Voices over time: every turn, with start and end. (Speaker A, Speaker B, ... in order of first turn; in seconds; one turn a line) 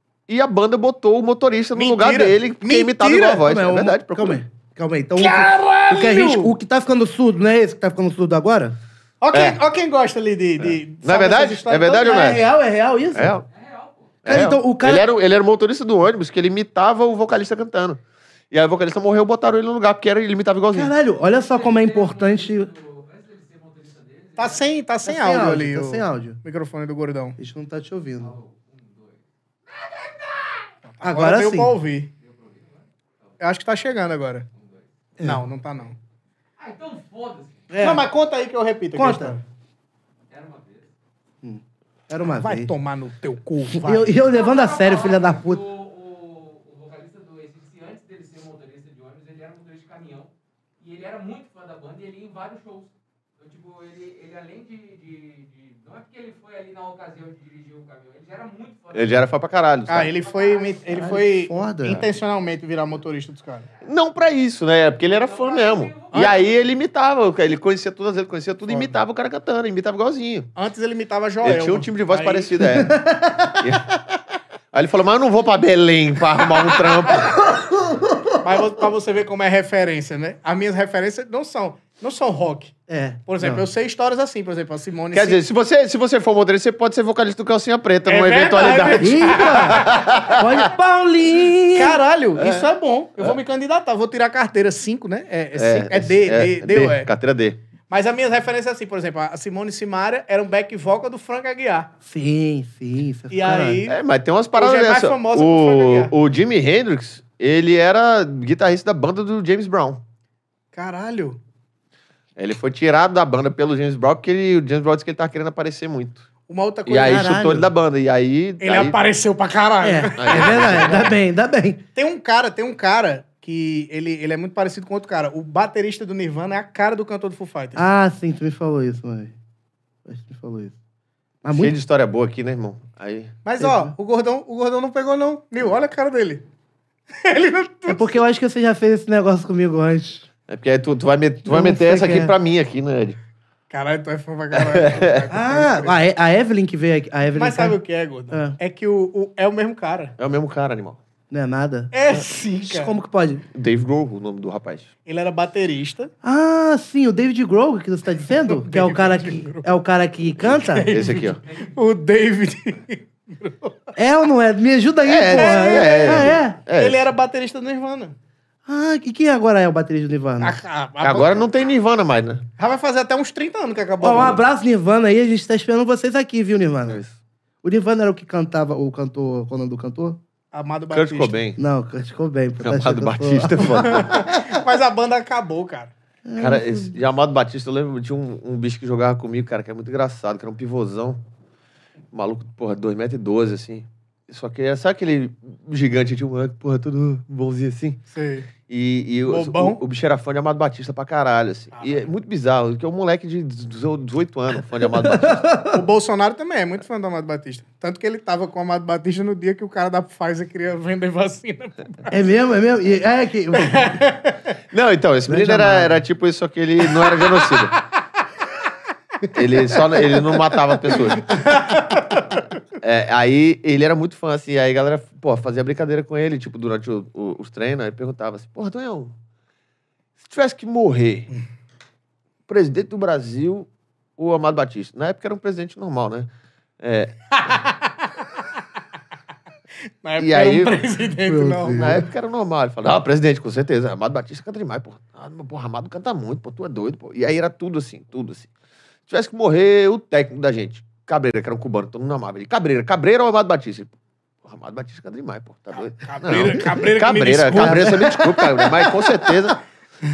Speaker A: 0.3-4.4
Speaker B: 1.8-3.5
Speaker C: 3.5-8.8
Speaker B: 5.2-6.5
Speaker B: 9.2-12.3
Speaker A: 9.3-9.6
Speaker A: 10.6-12.4
Speaker C: 12.0-13.4
Speaker A: 13.1-13.5
Speaker D: 13.5-14.3
Speaker A: 14.2-20.9
Speaker C: 14.3-15.1
Speaker C: 20.7-22.7
Speaker D: 21.2-24.8
Speaker B: 24.4-27.4
Speaker C: 25.1-26.4
Speaker C: 27.4-28.3
Speaker D: 28.2-30.7
Speaker B: 30.9-32.1
Speaker C: 31.0-31.7
Speaker D: 32.2-33.4
Speaker B: 33.4-34.5
Speaker D: 34.5-34.9
Speaker B: 35.2-36.0
Speaker D: 36.6-37.9
Speaker C: 37.7-38.0
Speaker B: 37.8-39.4
Speaker C: 39.0-39.4
Speaker D: 40.3-40.9
Speaker C: 41.4-42.7
Speaker B: 42.3-44.1
Speaker C: 43.7-45.6
Speaker D: 44.2-59.3
Speaker A: 58.9-60.1
Speaker B: 59.9-63.7
Speaker D: 60.1-61.0
Speaker C: 60.9-62.1
Speaker A: 63.8-70.5
Speaker D: 65.0-66.4
Speaker B: 70.6-72.6
Speaker A: 71.4-73.0
Speaker C: 72.7-73.6
Speaker A: 73.6-74.2
Speaker A: 74.7-77.3
Speaker C: 77.4-78.4
Speaker B: 78.4-85.4
Speaker C: 82.9-83.6
Speaker A: 85.1-90.7
Speaker B: 88.1-90.0
Speaker C: 89.0-92.0
Speaker B: 91.7-97.1
Speaker A: 92.4-93.4
Speaker A: 95.5-97.6
Speaker B: 97.9-101.9
Speaker C: 102.1-103.8
Speaker B: 103.3-104.0
Speaker A: 103.9-110.0
Speaker B: 104.5-106.1
Speaker B: 110.7-111.4
Speaker A: 112.4-116.3
Speaker B: 116.5-117.3
Speaker A: 116.9-119.0
Speaker C: 117.0-117.7
Speaker B: 118.6-121.1
Speaker C: 119.8-121.8
Speaker A: 120.2-121.2
Speaker B: 122.0-127.8
Speaker C: 127.8-129.3
Speaker C: 130.1-130.8
Speaker C: 131.4-131.8
Speaker A: 131.5-133.3
Speaker B: 133.4-136.4
Speaker C: 133.6-133.9
Speaker B: 137.2-138.2
Speaker C: 137.9-140.3
Speaker A: 140.5-143.2
Speaker C: 141.5-142.3
Speaker B: 143.7-146.0
Speaker A: 144.5-145.3
Speaker C: 145.3-147.8
Speaker B: 147.4-150.2
Speaker C: 148.3-148.6
Speaker A: 150.2-151.0
Speaker C: 151.3-151.9
Speaker B: 151.9-153.0
Speaker C: 152.6-153.4
Speaker A: 153.5-154.9
Speaker B: 155.1-156.1
Speaker C: 156.2-160.9
Speaker B: 158.3-159.7
Speaker B: 160.6-163.9
Speaker A: 160.9-161.4
Speaker C: 164.0-166.6
Speaker A: 165.1-167.1
Speaker B: 165.3-168.2
Speaker C: 168.7-170.6
Speaker B: 170.4-171.5
Speaker A: 171.0-172.5
Speaker B: 172.6-174.4
Speaker C: 174.0-177.0
Speaker A: 176.9-177.2
Speaker C: 177.6-180.2
Speaker B: 180.5-181.4
Speaker A: 180.9-181.6
Speaker C: 181.6-184.6
Speaker A: 182.6-184.3
Speaker B: 183.8-185.9
Speaker C: 186.3-187.0
Speaker A: 186.4-191.2
Speaker A: 192.1-198.0
Speaker B: 198.1-198.5
Speaker A: 198.7-205.5
Speaker B: 199.3-199.8
Speaker B: 201.7-202.1
Speaker C: 205.0-205.8
Speaker B: 205.7-212.1
Speaker C: 212.1-214.0
Speaker B: 213.5-214.5
Speaker A: 214.7-217.8
Speaker C: 215.3-216.0
Speaker B: 217.2-217.7
Speaker A: 219.3-221.5
Speaker B: 221.2-222.4
Speaker A: 222.8-229.2
Speaker A: 230.2-231.3
Speaker A: 232.5-237.5
Speaker B: 237.3-238.1
Speaker B: 240.0-242.0
Speaker A: 240.2-240.8
Speaker C: 241.3-242.0
Speaker A: 241.7-248.5
Speaker A: 249.1-253.9
Speaker A: 254.4-259.6
Speaker B: 255.9-258.1
Speaker C: 257.6-258.7